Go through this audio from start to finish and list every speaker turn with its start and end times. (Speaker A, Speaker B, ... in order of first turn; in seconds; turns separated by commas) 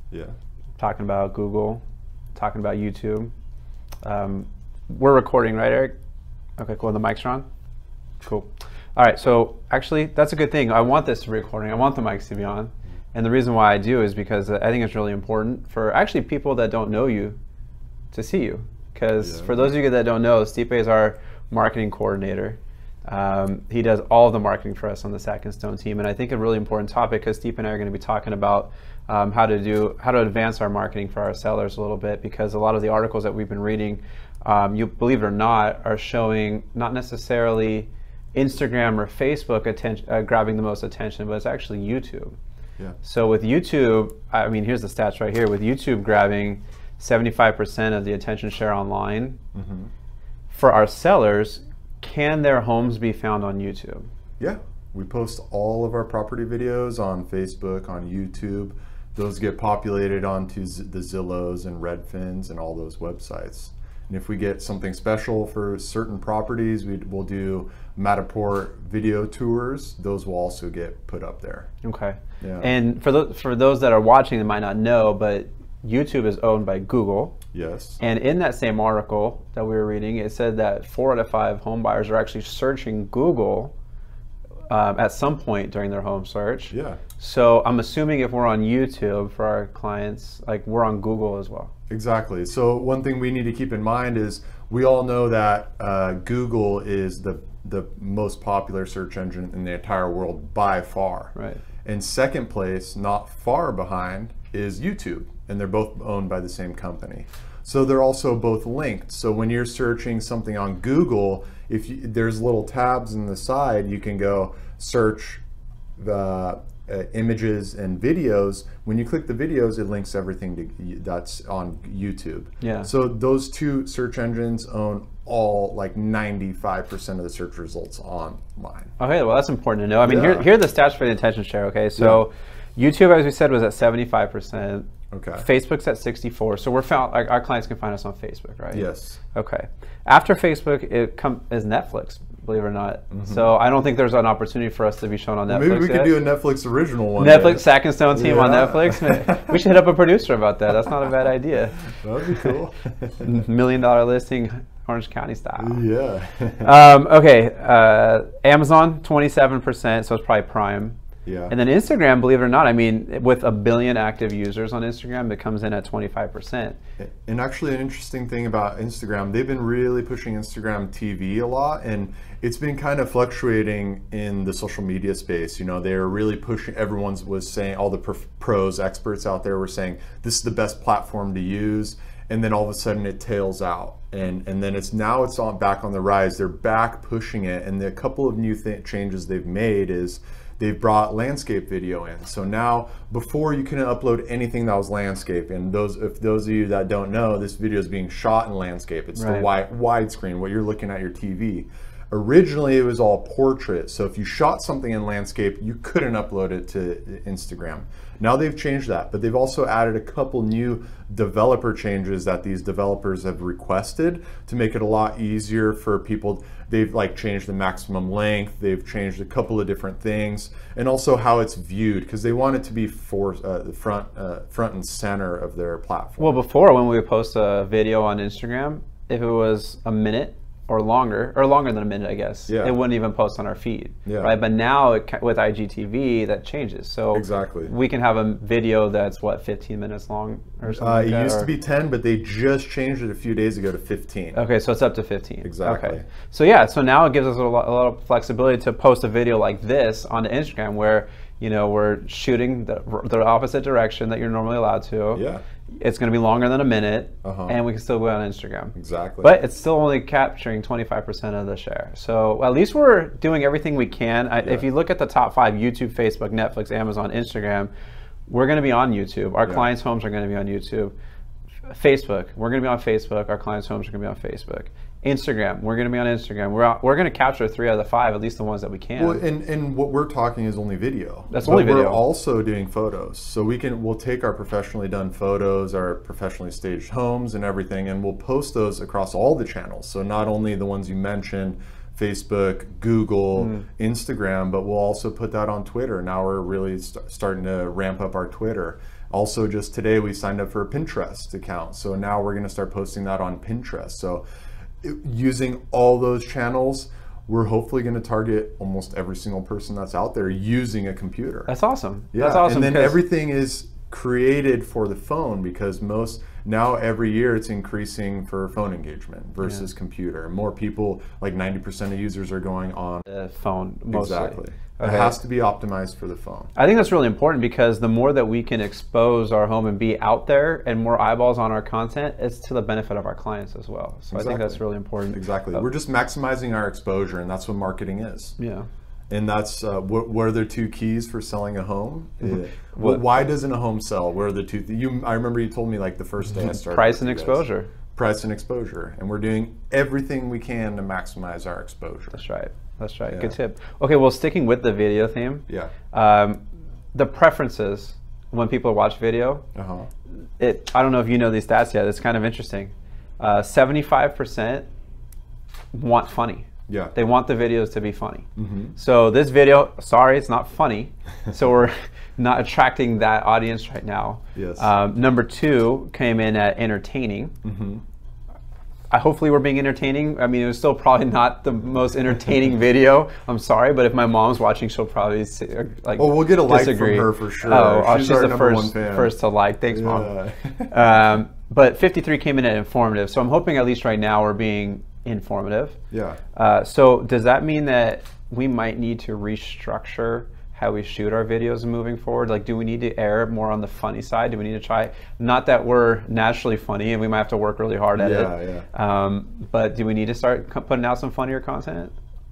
Speaker A: 0.8-1.8, Speaker A: 2.3-3.3, Speaker A: 4.0-5.9, Speaker A: 6.6-7.5, Speaker A: 8.2-17.4, Speaker A: 18.1-42.4, Speaker B: 19.2-19.7, Speaker A: 43.0-49.4, Speaker B: 49.5-49.9, Speaker A: 50.5-54.1, Speaker B: 54.4-71.7, Speaker A: 71.8-77.4, Speaker B: 72.4-72.7, Speaker B: 77.5-78.0, Speaker A: 78.0-83.7, Speaker A: 84.7-91.7, Speaker B: 86.7-87.0, Speaker B: 91.9-101.3, Speaker A: 101.3-101.6, Speaker B: 101.8-115.4, Speaker B: 116.0-128.9, Speaker A: 122.6-122.9, Speaker A: 129.0-146.1, Speaker B: 130.0-130.5, Speaker B: 132.0-132.2, Speaker B: 135.1-135.4, Speaker B: 138.7-139.2, Speaker B: 143.1-143.4, Speaker B: 145.5-149.6, Speaker A: 147.2-152.6, Speaker B: 152.0-153.3, Speaker A: 153.2-155.8, Speaker B: 155.6-156.7, Speaker A: 156.6-161.0, Speaker B: 161.2-161.5, Speaker A: 161.5-166.8, Speaker B: 167.0-226.4, Speaker A: 199.1-199.5, Speaker A: 226.2-241.5, Speaker B: 232.5-232.8, Speaker B: 234.1-234.3, Speaker B: 237.1-237.7, Speaker B: 240.7-244.4, Speaker A: 244.3-267.7, Speaker B: 245.4-246.1, Speaker B: 255.1-255.4, Speaker B: 257.2-257.6, Speaker B: 258.7-259.4, Speaker A: 268.3-270.9, Speaker A: 271.7-279.2, Speaker B: 278.9-304.2, Speaker A: 281.3-282.0, Speaker B: 304.8-311.5, Speaker A: 311.5-313.0, Speaker B: 312.1-323.0, Speaker A: 323.1-325.2, Speaker B: 323.9-326.5, Speaker A: 326.5-335.6, Speaker B: 334.1-334.6, Speaker B: 335.1-338.4, Speaker A: 338.4-338.7, Speaker B: 339.1-352.2, Speaker A: 342.2-343.1, Speaker A: 346.3-347.7, Speaker A: 352.1-356.4, Speaker B: 353.1-353.4, Speaker A: 356.9-359.4, Speaker B: 359.5-359.9, Speaker A: 360.4-364.7, Speaker A: 365.7-377.3, Speaker B: 366.7-366.9, Speaker B: 368.4-368.7, Speaker B: 374.3-374.7, Speaker B: 377.4-377.8, Speaker A: 378.9-390.1, Speaker B: 386.0-389.1, Speaker B: 389.7-390.7, Speaker A: 390.7-395.8, Speaker B: 395.9-396.2, Speaker A: 396.4-411.9, Speaker B: 407.9-408.6